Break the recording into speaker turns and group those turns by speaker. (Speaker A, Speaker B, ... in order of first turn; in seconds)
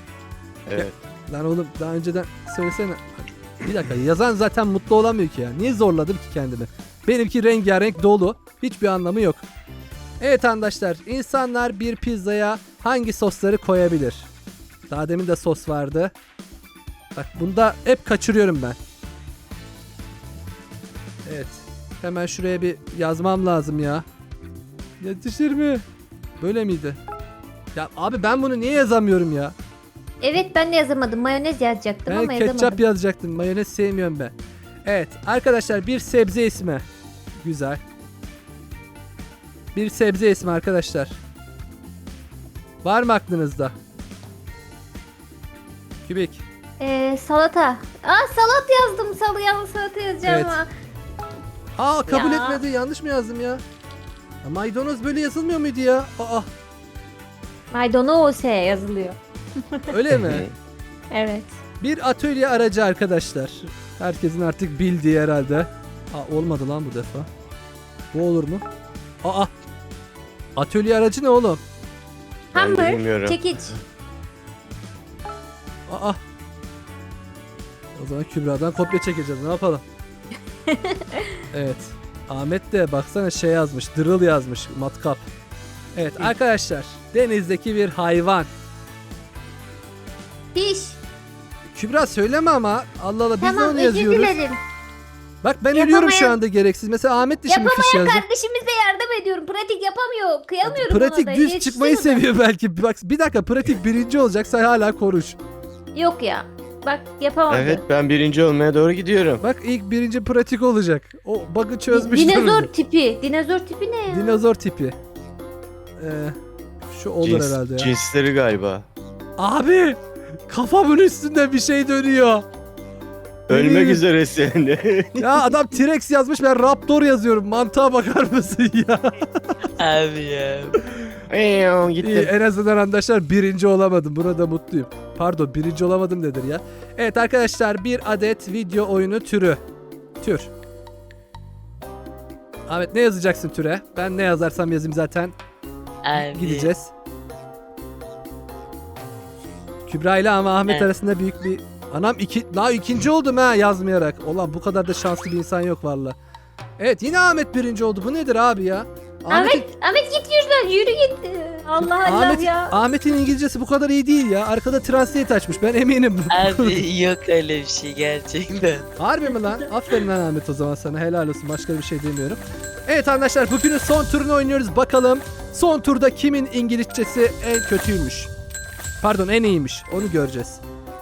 Speaker A: 0.7-1.0, 60.1-60.5, 72.5-73.8, 107.5-109.4, 117.2-118.9, 123.5-125.5, 131.3-132.3
Speaker B: 0.8-9.4, 10.2-14.3, 14.9-16.1, 17.1-18.8, 21.3-24.1, 25.0-25.8, 26.4-27.0, 27.8-29.5, 32.1-34.3, 34.9-36.9, 37.4-37.8, 39.8-41.2, 42.8-43.7, 46.0-46.4, 50.2-50.6, 51.8-53.6, 54.4-56.5, 59.9-60.5, 61.8-67.3, 68.1-68.7, 69.2-69.5, 70.6-71.6, 75.9-76.2, 78.0-79.8, 81.5-85.2, 86.0-88.5, 91.7-94.4, 95.4-98.2, 100.6-105.4, 109.4-112.7, 114.1-115.0, 116.0-117.9, 119.4-122.5, 123.5-124.0, 125.2-129.5, 132.0-139.6, 140.2-140.5, 142.7-145.3, 146.1-146.9, 149.9-156.2, 156.8-159.7, 161.8-166.8, 169.0-178.3, 179.0-180.6
Speaker C: 30.2-32.8, 46.8-50.7, 52.1-52.6, 57.7-59.9, 61.1-61.5, 72.5-73.7, 80.7-81.3, 90.5-91.0, 93.4-94.6, 95.7-96.4, 97.5-102.2, 106.0-107.8, 111.9-114.4, 159.3-162.7
Speaker D: 129.8-130.8, 146.0-146.7, 166.3-168.9